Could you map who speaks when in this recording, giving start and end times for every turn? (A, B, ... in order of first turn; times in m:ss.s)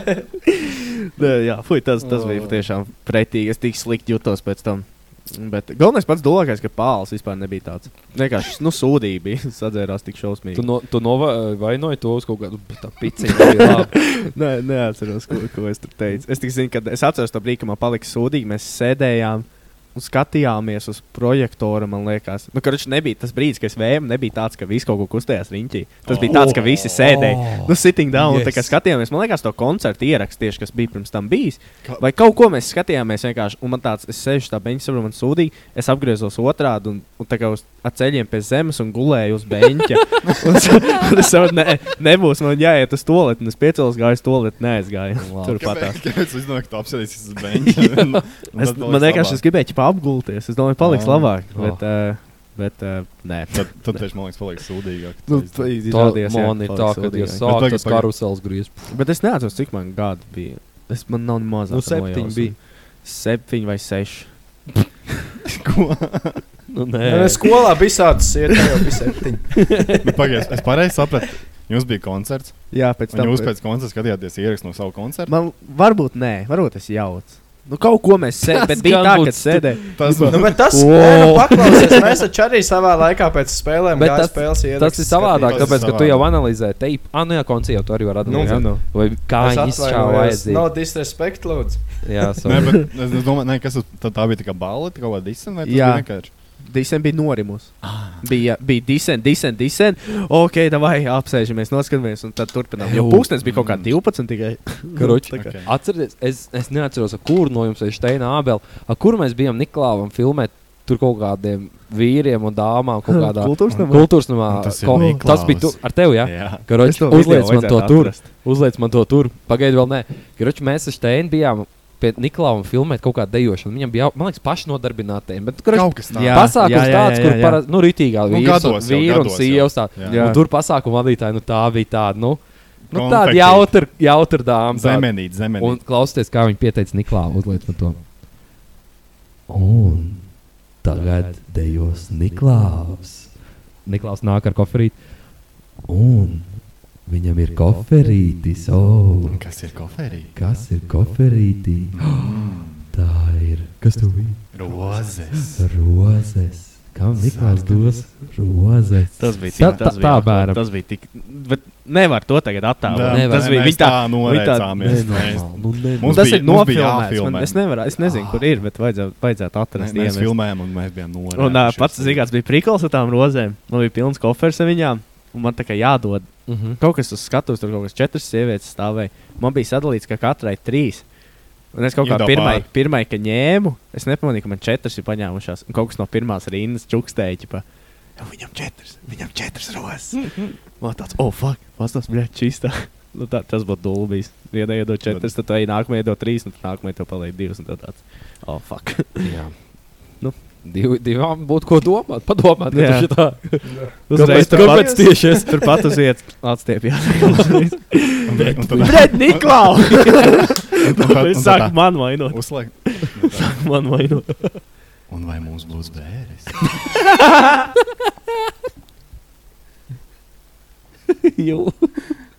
0:01.2-0:10.7 A
0:02.0-0:02.6 B
0:10.5-0:14.1 C
0:13.8-0:46.1 A
0:26.0-0:27.0 B
0:26.2-0:28.8 C
0:45.2-0:45.7 C
0:45.5-0:49.4 B
0:47.6-0:48.2 C
0:48.6-0:54.2 A
0:50.8-0:51.4 B
0:51.5-0:51.8 C
0:53.5-0:55.7 B
0:55.2-0:57.5 A
0:55.9-0:59.0 C
0:57.4-0:58.1 B
0:58.9-1:04.7 A
1:01.7-1:02.6 C
1:05.5-1:06.7 B
1:06.7-1:07.9 C
1:07.0-1:10.0 D
1:10.0-1:15.3 B
1:12.7-1:13.5 A
1:15.3-1:20.3 A
1:18.4-1:21.7 C
1:19.9-1:20.6 B
1:20.3-1:25.9 D
1:23.9-1:30.7 C
1:25.4-1:26.4 B
1:28.2-1:32.2 D
1:28.3-1:28.8 A
1:32.0-1:32.8 C
1:32.4-1:36.3 B
1:35.6-1:45.5 A
1:37.8-1:38.2 B
1:42.8-1:43.3 C
1:43.4-1:44.0 B
1:45.0-2:18.1 C
1:45.3-1:45.7 B
1:53.1-1:54.3 A
1:53.7-1:56.6 B
1:54.9-1:55.3 A
1:56.8-1:58.3 A
2:05.7-2:06.6 B
2:06.2-2:07.6 A
2:08.3-2:10.3 B
2:10.0-2:10.4 A
2:12.8-2:14.0 B
2:14.7-2:15.9 B
2:19.5-2:29.4 C
2:29.2-2:30.3 B
2:30.3-2:34.7 C
2:31.9-2:32.9 B
2:34.5-2:35.7 B
2:35.5-2:40.6 C
2:37.1-2:38.0 B
2:39.2-2:45.4 A
2:39.6-2:40.2 B
2:42.8-2:47.7 B
2:43.1-2:43.8 C
2:44.8-2:46.4 C
2:46.0-3:19.6 A
2:48.0-2:48.5 C
2:49.7-2:52.3 B
2:56.5-2:56.8 C
3:02.0-3:02.7 B
3:15.0-3:15.3 B
3:19.2-3:25.6 C
3:22.7-3:34.6 A
3:23.6-3:25.6 D
3:28.2-3:34.0 B
3:28.3-3:29.6 C
3:35.1-3:36.8 B
3:41.2-3:41.9 C